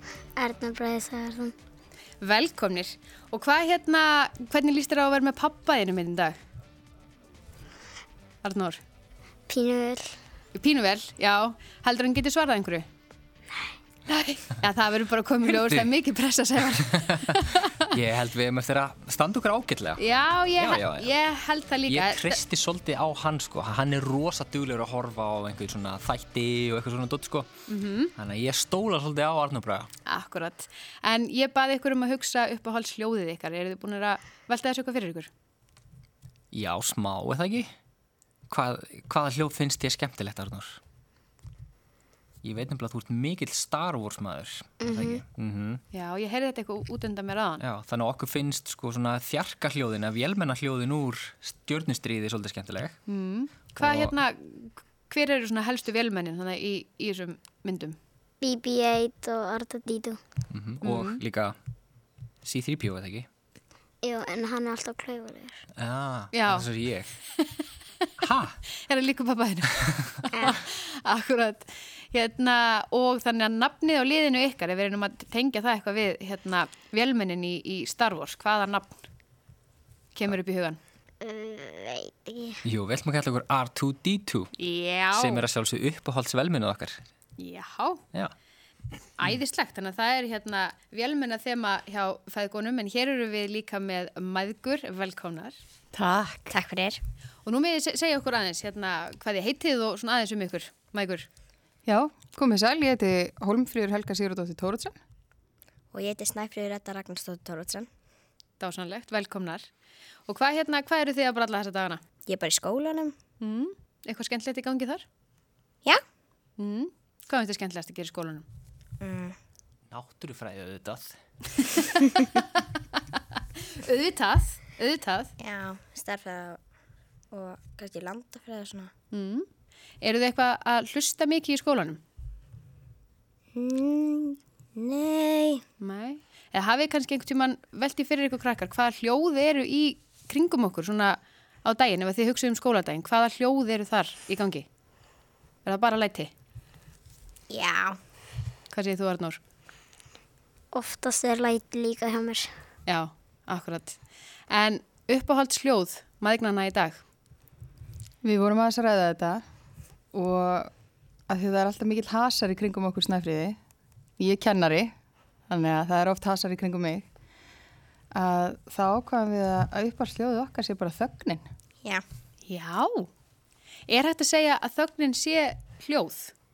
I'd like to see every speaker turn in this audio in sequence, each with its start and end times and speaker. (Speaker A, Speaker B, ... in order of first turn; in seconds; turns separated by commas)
Speaker A: 0.4-1.5, Speaker B: 2.2-6.3, Speaker B: 8.4-8.8, Speaker A: 9.5-10.1, Speaker B: 10.5-12.9, Speaker B: 14.1-17.9, Speaker C: 15.5-15.9, Speaker C: 16.7-20.0, Speaker B: 20.0-22.4, Speaker C: 20.6-21.2, Speaker C: 21.9-27.5, Speaker B: 27.7-28.1, Speaker C: 28.1-29.9, Speaker B: 30.1-35.3, Speaker C: 36.5-37.7, Speaker C: 38.5-40.8, Speaker C: 42.4-45.8, Speaker A: 44.8-45.2, Speaker B: 45.9-47.6, Speaker C: 47.6-53.0, Speaker D: 53.1-53.5, Speaker B: 53.8-58.0, Speaker C: 53.8-54.1, Speaker A: 58.4-60.2, Speaker C: 60.5-61.5, Speaker B: 60.8-61.2, Speaker C: 62.4-63.3, Speaker A: 64.0-65.6, Speaker C: 65.8-67.1, Speaker B: 66.3-66.7, Speaker C: 68.2-68.6, Speaker B: 68.8-79.0, Speaker B: 80.1-80.8, Speaker A: 81.2-82.6, Speaker C: 82.6-84.5, Speaker B: 84.6-85.5, Speaker C: 85.1-87.0, Speaker B: 87.4-88.0, Speaker B: 89.2-95.6, Speaker D: 96.0-96.4, Speaker E: 96.4-97.0, Speaker B: 97.4-101.3, Speaker D: 101.8-104.9, Speaker E: 105.9-107.9, Speaker B: 108.6-109.7, Speaker B: 110.3-112.0, Speaker E: 112.2-113.2, Speaker B: 113.4-115.0, Speaker B: 116.6-118.5, Speaker E: 119.0-119.4, Speaker C: 119.9-121.2, Speaker B: 121.6-122.7, Speaker B: 123.7-125.3, Speaker E: 125.4-126.6, Speaker E: 127.3-128.9, Speaker B: 129.1-129.4, Speaker B: 130.0-132.0, Speaker E: 133.5-135.6, Speaker B: 135.8-144.7, Speaker B: 145.6-146.3, Speaker E: 147.5-148.0, Speaker B: 148.7-149.4, Speaker A: 150.7-152.5, Speaker B: 152.8-154.0, Speaker B: 154.5-157.0, Speaker D: 158.2-159.4, Speaker D: 160.1-160.7, Speaker D: 161.3-163.6, Speaker D: 164.2-164.9, Speaker D: 165.5-167.1, Speaker D: 168.1-171.4, Speaker B: 172.4-173.1, Speaker B: 173.9-176.3